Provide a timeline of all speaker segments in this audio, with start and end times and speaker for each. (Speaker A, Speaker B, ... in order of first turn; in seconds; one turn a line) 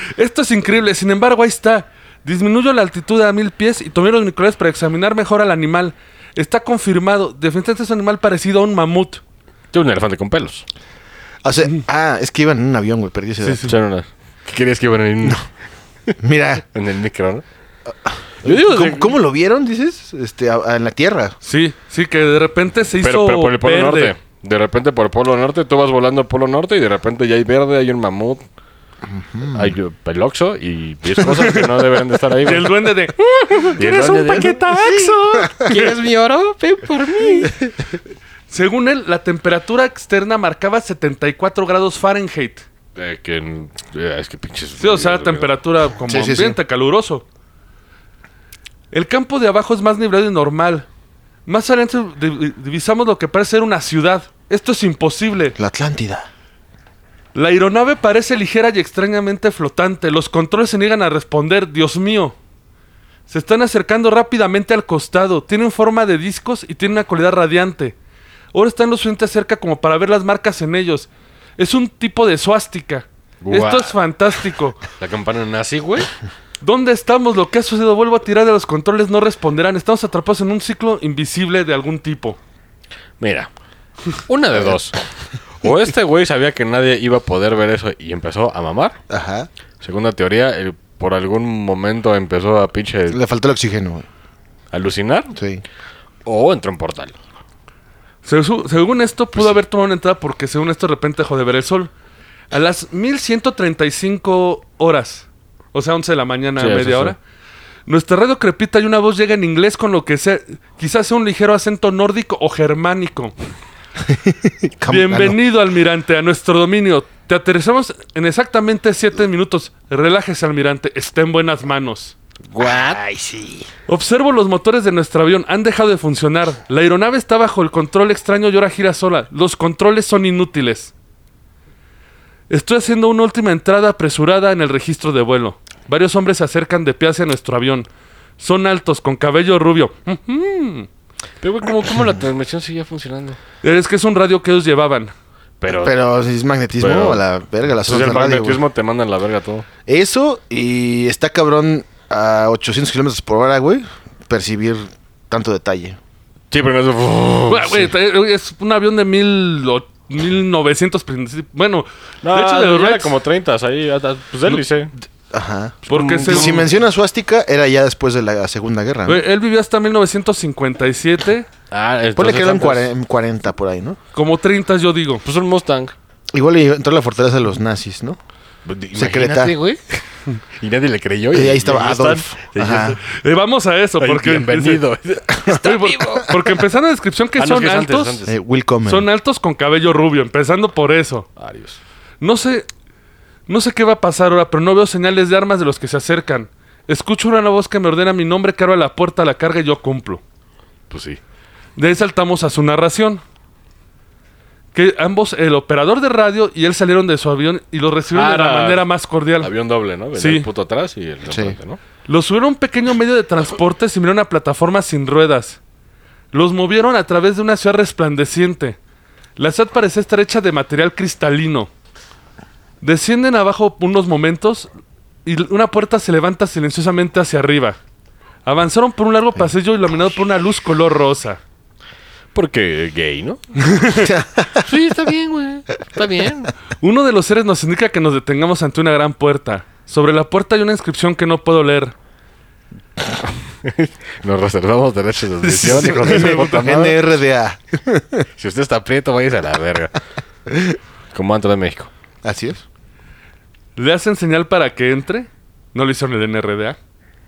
Speaker A: 0.1-9.2
Speaker B: 9.7-10.6
Speaker C: 11.4-13.7
Speaker A: 13.4-13.7
Speaker B: 13.6-15.5
Speaker C: 16.2-16.6
Speaker B: 16.7-17.4
Speaker C: 18.1-21.4
Speaker B: 18.4-19.2
Speaker A: 21.4-24.1
Speaker B: 23.0-28.4
Speaker C: 29.0-29.7
Speaker B: 29.5-37.7
Speaker A: 31.3-31.6
Speaker A: 32.4-35.5
Speaker A: 38.5-42.6
Speaker B: 43.0-45.5
Speaker A: 44.8-47.2
Speaker C: 46.0-46.6
Speaker A: 48.9-50.9
Speaker A: 51.5-55.5
Speaker C: 55.6-56.3
Speaker A: 57.3-62.4
Speaker A: 63.3-68.0
Speaker A: 68.5-74.8
Speaker B: 73.4-73.9
Speaker B: 75.0-76.1
Speaker A: 76.6-82.4
Speaker B: 83.2-83.5
Speaker B: 84.3-85.0
Speaker C: 84.5-84.8
Speaker B: 85.6-89.0
Speaker C: 89.1-89.5
Speaker B: 89.8-93.2
Speaker C: 93.1-94.1
Speaker B: 94.7-95.3
Speaker C: 95.3-95.6
Speaker B: 96.2-97.1
Speaker A: 98.2-101.9
Speaker A: 102.5-107.2
Speaker B: 106.6-107.2
Speaker A: 107.8-113.3
Speaker C: 114.0-115.4
Speaker A: 114.9-122.1
Speaker B: 122.5-123.0
Speaker C: 122.6-123.7
Speaker A: 123.9-130.9
Speaker A: 132.5-137.9
Speaker A: 138.4-140.9
Speaker B: 141.4-143.4
Speaker A: 143.6-145.1
Speaker B: 145.6-146.0
Speaker C: 145.8-148.6
Speaker B: 146.8-147.2
Speaker B: 147.8-149.7
Speaker C: 149.8-156.0
Speaker B: 156.5-157.9
Speaker A: 157.5-163.1
Speaker B: 162.2-164.9
Speaker C: 165.3-169.2
Speaker B: 165.9-166.7
Speaker A: 165.9-166.6
Speaker A: 169.1-171.5
Speaker B: 171.7-172.9
Speaker C: 172.2-174.0
Speaker A: 174.1-175.2
Speaker B: 175.2-175.9
Speaker C: 176.3-178.2
Speaker B: 178.7-180.0
Speaker C: 178.9-179.5
Speaker B: 180.6-183.0
Speaker C: 181.3-183.0
Speaker A: 183.1-184.8
Speaker B: 184.0-186.4
Speaker A: 185.4-188.2
Speaker B: 187.4-188.3
Speaker C: 188.2-189.1
Speaker A: 188.8-191.3
Speaker B: 191.4-191.8
Speaker A: 192.2-192.7
Speaker A: 193.5-200.2
Speaker B: 200.9-201.2
Speaker A: 201.8-203.2
Speaker A: 204.7-209.5
Speaker B: 208.1-208.9
Speaker B: 209.4-211.8
Speaker A: 210.1-210.5
Speaker C: 211.3-211.6
Speaker A: 212.1-215.6
Speaker A: 216.3-218.8
Speaker A: 219.4-221.7
Speaker A: 222.8-224.7
Speaker A: 225.2-227.8
Speaker A: 228.4-231.4
Speaker B: 232.3-233.4
Speaker A: 233.7-234.0
Speaker C: 233.9-234.7
Speaker B: 234.6-236.5
Speaker A: 236.8-241.9
Speaker B: 243.6-247.0
Speaker C: 245.4-248.2
Speaker A: 245.6-246.7
Speaker B: 248.4-249.9
Speaker C: 250.5-250.7
Speaker B: 251.1-251.9
Speaker C: 252.2-252.6
Speaker A: 253.8-256.8